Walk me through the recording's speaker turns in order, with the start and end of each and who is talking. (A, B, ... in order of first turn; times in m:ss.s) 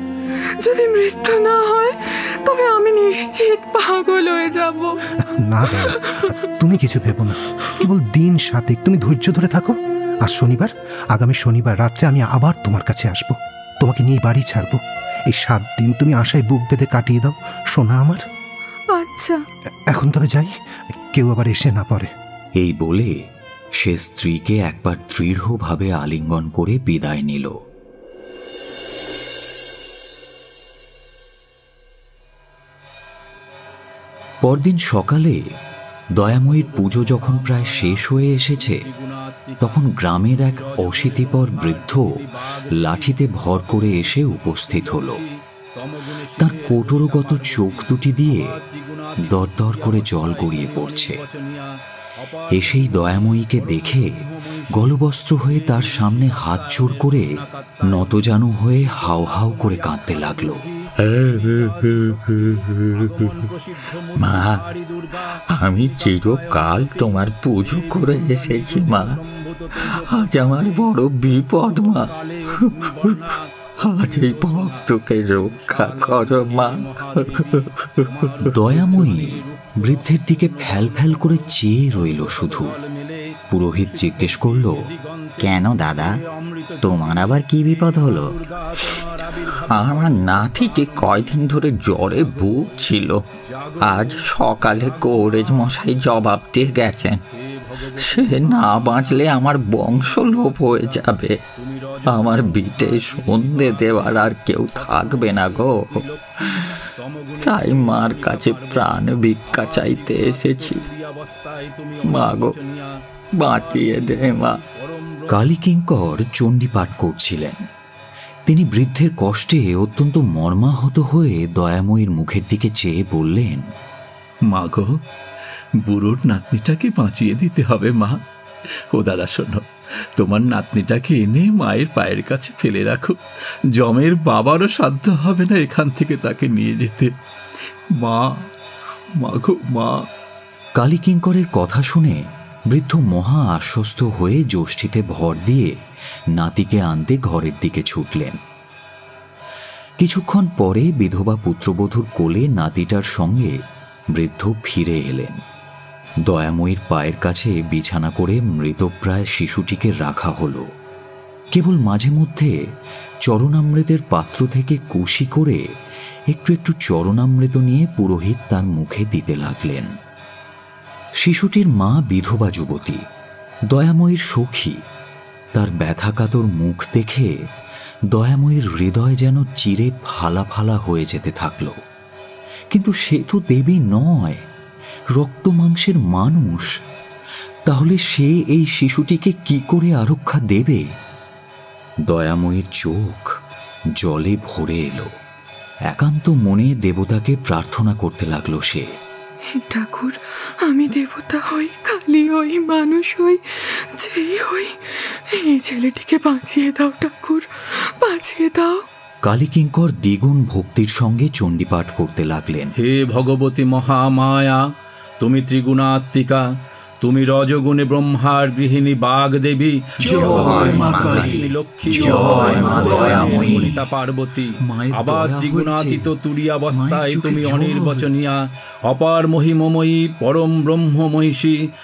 0:00.6-0:05.0 A
0:05.2-0:18.2 B
0:05.6-0:06.5 A
0:18.9-0:19.4 A
0:19.9-0:22.1 B
0:22.6-0:23.2 C
0:23.8-0:27.6 C
0:34.4-0:35.4 C
0:36.2-0:38.8 C
0:36.4-0:39.7 D
0:39.6-0:42.1 C
0:40.4-1:35.9 D
0:42.8-0:45.2 C
0:46.4-0:48.6 C
0:49.3-0:51.2 C
0:52.5-0:57.3 C
0:57.9-1:00.6 C
1:01.0-1:03.5 E
1:04.2-1:04.6 E
1:05.5-1:09.2 E
1:09.7-1:13.2 E
1:13.8-1:18.5 E
1:18.4-1:22.7 C
1:23.5-1:24.8 C
1:25.4-1:26.2 E
1:26.8-1:33.2 E
1:33.8-1:37.2 E
1:37.3-1:55.5 D
1:38.0-1:41.4 E
1:42.1-1:46.7 E
1:47.4-1:50.8 E
1:52.0-1:52.6 E
1:53.4-1:54.6 E
1:55.3-1:57.6 C
1:58.5-2:03.6 C
2:04.5-2:05.0 F
2:05.8-2:08.2 F
2:08.9-2:13.2 F
2:13.8-2:17.1 F
2:18.0-2:18.3 F
2:19.2-2:20.0 F
2:20.8-2:25.7 C
2:26.4-2:28.4 C
2:30.0-2:33.5 C
2:34.1-2:35.4 C
2:36.3-2:40.7 C
2:41.5-2:42.5 C
2:43.2-2:45.6 C
2:46.3-2:49.9 C
2:51.2-2:53.0 C
2:53.7-2:54.8 C
2:55.5-2:57.3 C
2:58.1-3:01.8 C
3:02.7-3:04.4 C
3:05.1-3:06.7 C
3:07.7-3:10.8 C
3:12.1-3:13.3 C
3:14.0-3:15.1 C
3:15.9-3:18.9 C
3:19.5-3:28.8 A
3:29.2-3:32.7 C
3:32.8-3:34.6 D
3:35.2-3:36.4 D
3:37.0-3:51.6 D
3:40.0-3:43.8 E
3:40.2-3:41.4 C
3:42.0-3:43.4 C
3:44.7-3:46.0 E
3:46.7-3:48.1 E